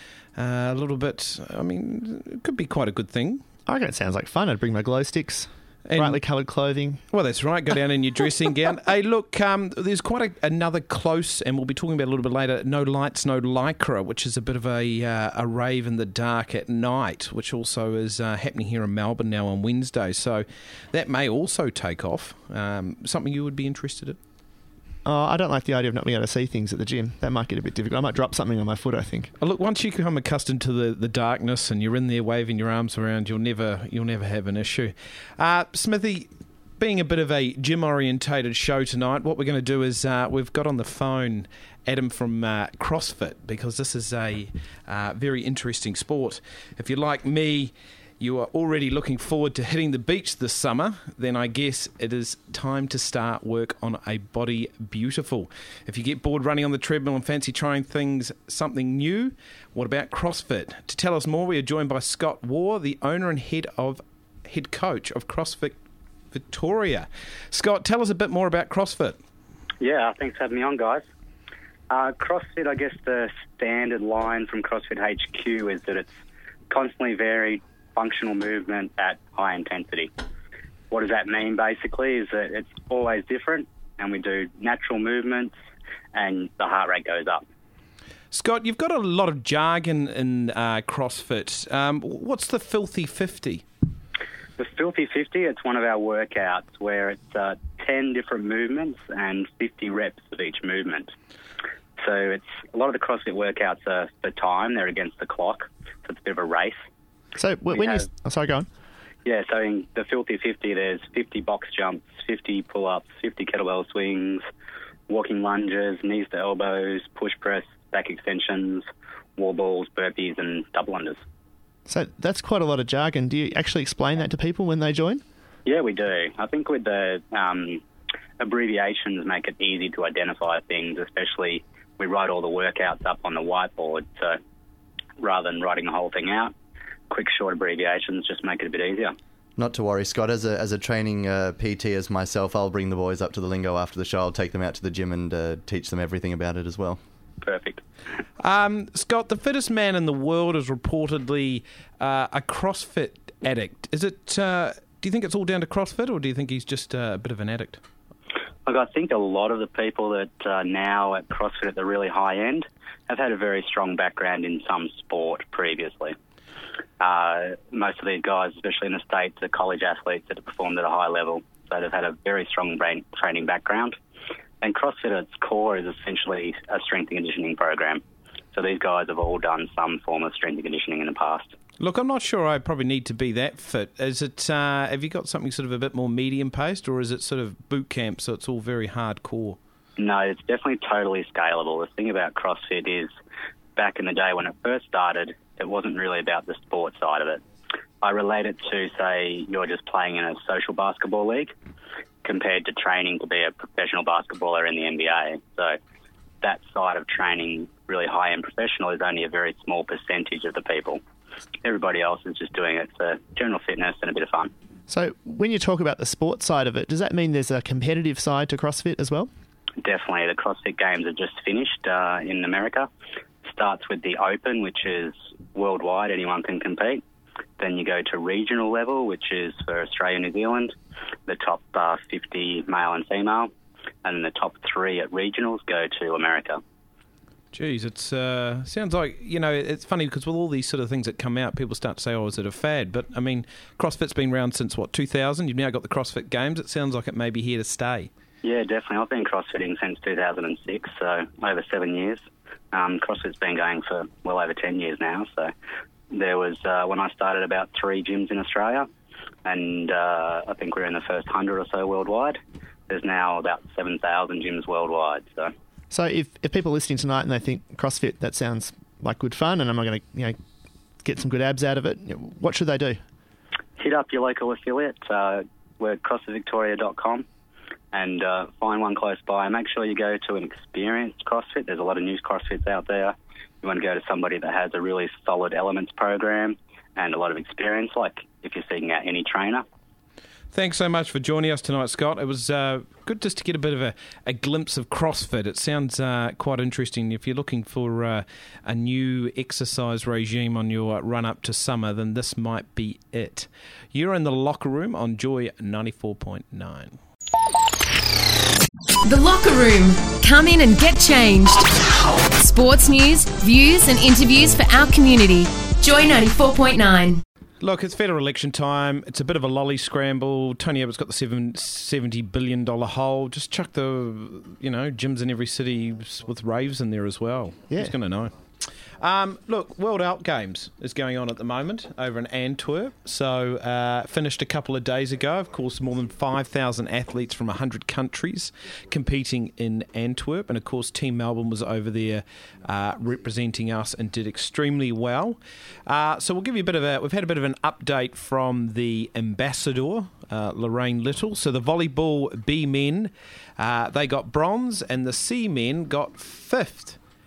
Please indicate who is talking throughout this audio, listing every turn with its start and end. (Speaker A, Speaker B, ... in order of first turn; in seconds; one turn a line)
Speaker A: 0.4-3.4
Speaker B: 3.7-7.0
Speaker A: 5.9-6.2
Speaker A: 7.1-24.2
Speaker B: 25.0-29.3
Speaker A: 29.4-65.8
Speaker A: 66.3-69.2
Speaker C: 69.8-71.0
Speaker C: 71.9-76.1
Speaker C: 76.7-80.1
Speaker C: 80.9-85.5
Speaker C: 86.1-87.4
Speaker A: 88.3-93.6
Speaker C: 94.6-101.1
Speaker C: 102.0-106.8
Speaker B: 107.3-108.7
Speaker C: 107.8-108.0
Speaker C: 109.2-114.4
Speaker C: 115.1-121.2
Speaker B: 121.9-125.2
Speaker C: 125.7-127.8
Speaker C: 128.4-134.4
Speaker C: 135.2-136.5
Speaker C: 137.1-139.1
Speaker D: 139.6-147.0
Speaker C: 147.4-147.8
Speaker A: 148.4-157.8
Speaker C: 158.7-166.1
Speaker C: 167.0-173.9
Speaker C: 174.6-178.0
Speaker C: 178.5-181.5
Speaker A: 181.8-189.6
Speaker C: 190.0-193.1
Speaker C: 193.8-197.4
Speaker C: 198.0-201.5
Speaker C: 202.2-205.8
Speaker C: 206.4-211.0
Speaker C: 211.6-214.5
Speaker B: 214.9-219.3
Speaker C: 219.8-222.9
Speaker C: 223.4-227.0
Speaker C: 227.6-230.7
Speaker C: 231.3-233.5
Speaker C: 234.0-236.6
Speaker A: 237.5-248.1
Speaker C: 248.4-252.2
Speaker C: 252.7-255.5
Speaker C: 256.1-258.9
Speaker C: 259.4-265.5
Speaker B: 265.9-270.4
Speaker B: 271.0-273.0
Speaker C: 273.8-277.2
Speaker C: 277.9-289.6
Speaker A: 290.5-307.0
Speaker E: 309.1-311.7
Speaker E: 312.3-317.2
Speaker A: 317.6-357.0